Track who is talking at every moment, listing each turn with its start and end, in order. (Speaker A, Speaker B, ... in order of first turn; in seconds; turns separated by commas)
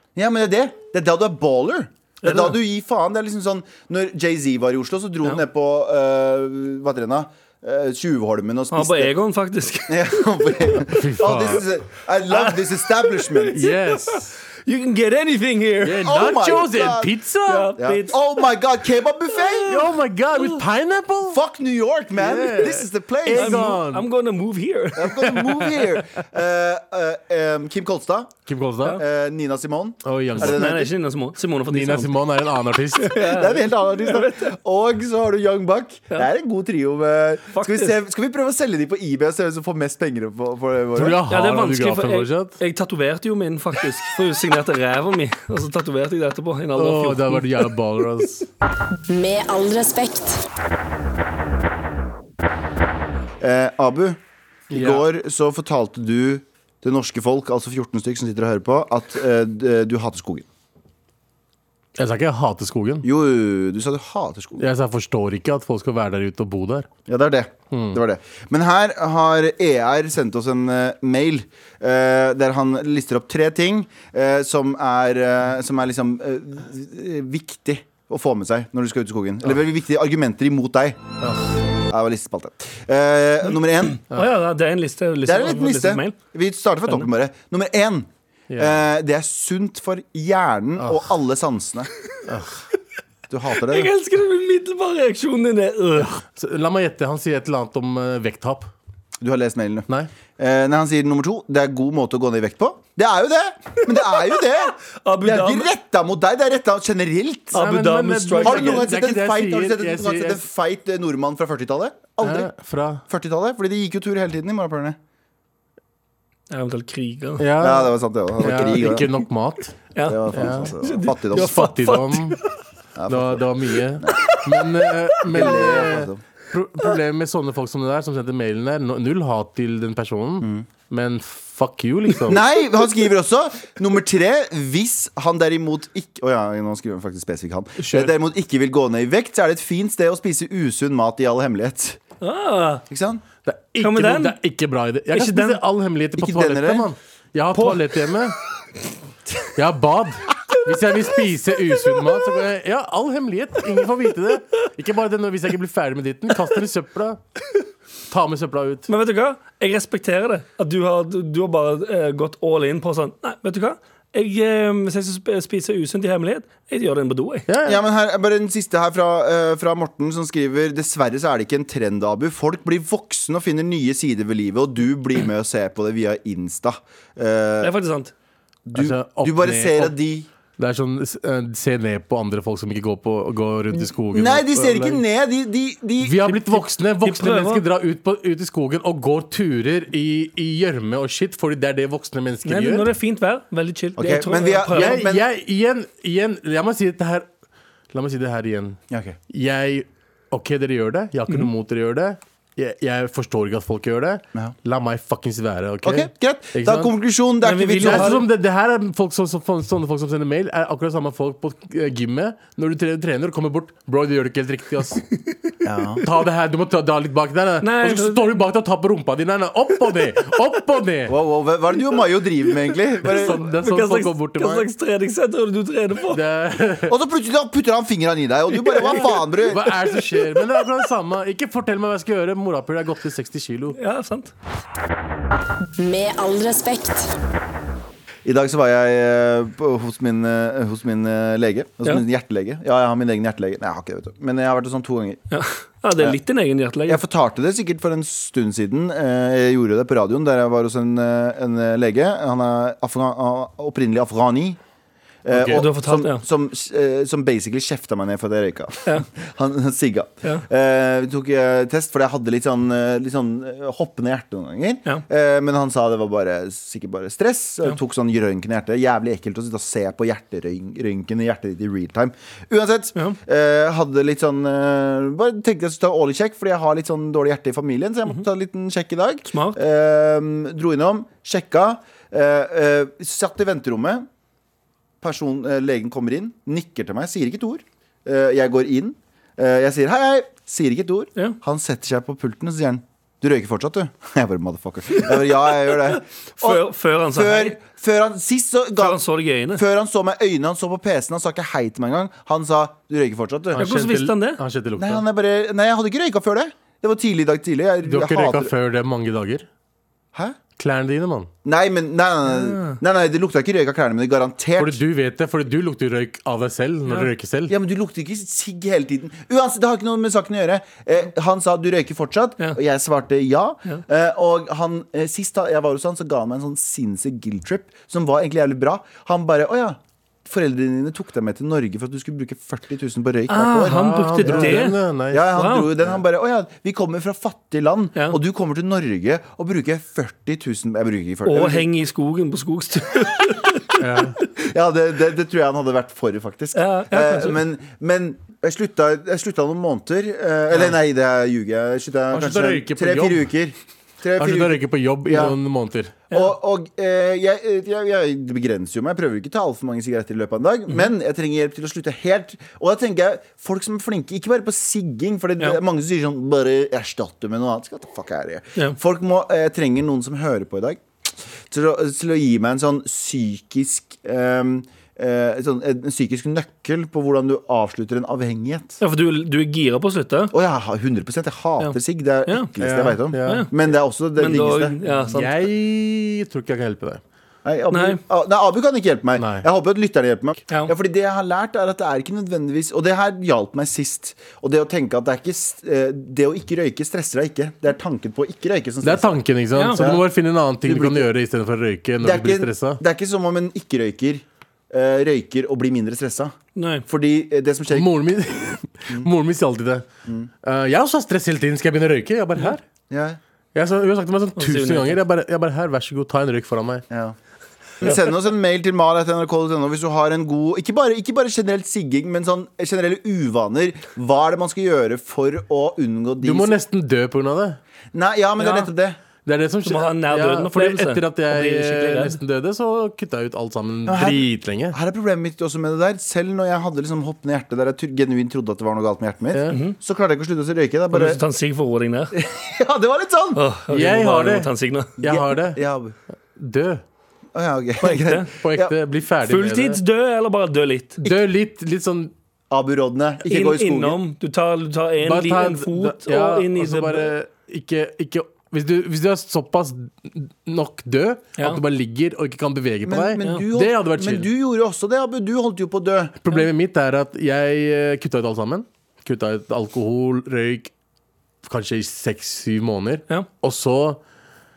Speaker A: 0.1-9.1, Speaker B: 2.2-2.5, Speaker B: 8.7-10.8, Speaker A: 9.9-13.6, Speaker C: 10.9-11.7, Speaker B: 12.3-16.2, Speaker C: 13.5-14.4, Speaker C: 15.8-17.7, Speaker A: 16.0-17.1, Speaker B: 17.5-18.4, Speaker A: 17.8-19.8, Speaker C: 19.6-21.4, Speaker A: 21.3-23.8, Speaker C: 22.1-24.1, Speaker B: 23.3-25.4, Speaker A: 24.9-28.3, Speaker C: 25.3-25.9, Speaker C: 28.4-29.0, Speaker A: 28.9-30.9, Speaker C: 30.0-30.6, Speaker B: 30.4-32.1, Speaker C: 31.7-33.2, Speaker B: 33.0-34.5, Speaker A: 33.2-41.2, Speaker B: 37.5-38.0, Speaker C: 41.0-42.6, Speaker B: 41.3-47.7, Speaker C: 46.8-48.5, Speaker D: 49.1-50.4, Speaker A: 53.4-54.2, Speaker C: 54.7-55.0, Speaker A: 54.7-60.5, Speaker C: 62.0-63.0, Speaker A: 63.0-64.7, Speaker C: 64.6-66.9, Speaker A: 67.1-81.0, Speaker C: 67.7-68.0, Speaker C: 81.2-81.6, Speaker A: 81.9-84.0, Speaker B: 84.0-86.2, Speaker A: 85.2-91.9, Speaker C: 88.5-88.8, Speaker C: 92.3-92.6, Speaker A: 93.3-93.9, Speaker B: 93.6-96.1, Speaker C: 96.0-98.7, Speaker A: 99.2-107.6, Speaker B: 104.1-105.7, Speaker B: 107.5-108.9, Speaker C: 107.5-110.4, Speaker A: 108.4-112.5, Speaker C: 112.2-113.0, Speaker A: 113.1-115.0, Speaker B: 116.5-117.4, Speaker C: 117.4-119.8, Speaker A: 117.6-119.1, Speaker B: 119.9-122.5, Speaker A: 120.0-121.6, Speaker C: 120.3-120.7, Speaker C: 121.3-122.4, Speaker A: 123.0-123.4, Speaker C: 123.1-132.4, Speaker B: 124.1-124.4, Speaker A: 125.2-126.2, Speaker A: 130.4-130.7, Speaker A: 132.3-142.0, Speaker C: 137.8-138.1, Speaker B: 142.2-142.8, Speaker A: 142.9-143.2, Speaker C: 143.4-148.3, Speaker B: 143.8-144.3, Speaker B: 145.1-145.6, Speaker A: 146.2-146.9, Speaker C: 149.5-157.2, Speaker C: 158.1-158.9, Speaker B: 158.9-167.5, Speaker C: 167.5-167.8, Speaker A: 167.6-177.7, Speaker B: 177.6-178.1, Speaker A: 178.7-180.3, Speaker C: 178.7-179.9, Speaker C: 180.6-185.0, Speaker A: 184.1-186.6, Speaker C: 186.0-192.9, Speaker B: 187.0-187.6, Speaker B: 192.4-195.0, Speaker A: 194.0-195.2, Speaker C: 194.7-197.3, Speaker C: 197.9-206.9, Speaker A: 198.9-199.2, Speaker A: 205.8-208.2, Speaker B: 207.4-208.2, Speaker C: 207.8-215.0, Speaker A: 215.6-216.0, Speaker C: 216.0-221.1, Speaker B: 217.6-218.4, Speaker A: 221.1-223.4, Speaker C: 223.0-224.7, Speaker B: 223.1-226.2, Speaker C: 226.1-226.9, Speaker A: 226.9-229.7, Speaker B: 228.7-229.0, Speaker C: 229.0-233.8, Speaker B: 230.1-230.4, Speaker B: 233.7-234.3, Speaker D: 235.8-237.1, Speaker A: 238.2-245.2, Speaker B: 245.3-247.0, Speaker A: 246.9-254.6, Speaker A: 255.2-284.1, Speaker C: 255.3-255.6, Speaker B: 255.4-256.2, Speaker B: 279.3-279.6, Speaker A: 285.0-299.0, Speaker B: 294.9-297.6, Speaker B: 298.8-299.6, Speaker A: 299.5-303.6, Speaker C: 303.5-305.0, Speaker B: 303.6-304.4, Speaker A: 304.8-308.5, Speaker C: 307.8-309.4, Speaker C: 310.6-311.3, Speaker A: 311.4-314.8, Speaker B: 312.3-312.8, Speaker C: 314.6-317.5, Speaker A: 317.5-341.7, Speaker B: 333.3-334.8, Speaker C: 333.6-335.2, Speaker B: 335.3-335.7, Speaker B: 341.2-343.8, Speaker C: 343.8-344.1, Speaker A: 344.4-355.3, Speaker B: 346.5-347.4, Speaker C: 352.1-353.3, Speaker C: 354.2-356.0, Speaker A: 356.1-370.8, Speaker A: 371.5-378.8, Speaker B: 378.8-380.3, Speaker A: 380.3-384.8, Speaker C: 382.6-383.5, Speaker B: 383.2-383.5, Speaker B: 384.2-385.3, Speaker C: 385.1-387.0, Speaker A: 387.4-399.2, Speaker B: 387.7-388.0, Speaker C: 389.2-389.4, Speaker C: 398.8-402.8, Speaker B: 399.5-399.8, Speaker A: 399.7-400.0, Speaker A: 400.6-401.1, Speaker A: 402.0-406.3, Speaker B: 406.6-406.9, Speaker A: 406.9-407.9, Speaker C: 407.7-409.9, Speaker C: 410.4-412.6, Speaker A: 412.9-413.2, Speaker C: 413.5-416.8, Speaker B: 414.4-415.0, Speaker A: 416.9-417.1, Speaker A: 417.8-426.5, Speaker C: 426.2-427.6, Speaker A: 427.9-429.0, Speaker B: 428.4-428.7, Speaker C: 429.2-434.8, Speaker B: 429.6-432.2, Speaker A: 433.8-441.2, Speaker C: 439.3-439.6, Speaker B: 439.5-439.7, Speaker B: 440.9-442.1, Speaker A: 442.1-443.4, Speaker B: 443.3-444.9, Speaker C: 443.7-445.6, Speaker A: 445.0-445.9, Speaker C: 446.4-446.8, Speaker A: 447.3-448.7, Speaker B: 447.8-448.3, Speaker C: 448.3-449.8, Speaker B: 449.2-451.0, Speaker C: 451.0-452.1, Speaker A: 452.5-454.0, Speaker B: 453.2-457.1, Speaker C: 455.0-464.3, Speaker A: 462.8-466.2, Speaker C: 466.2-470.7, Speaker C: 471.4-474.0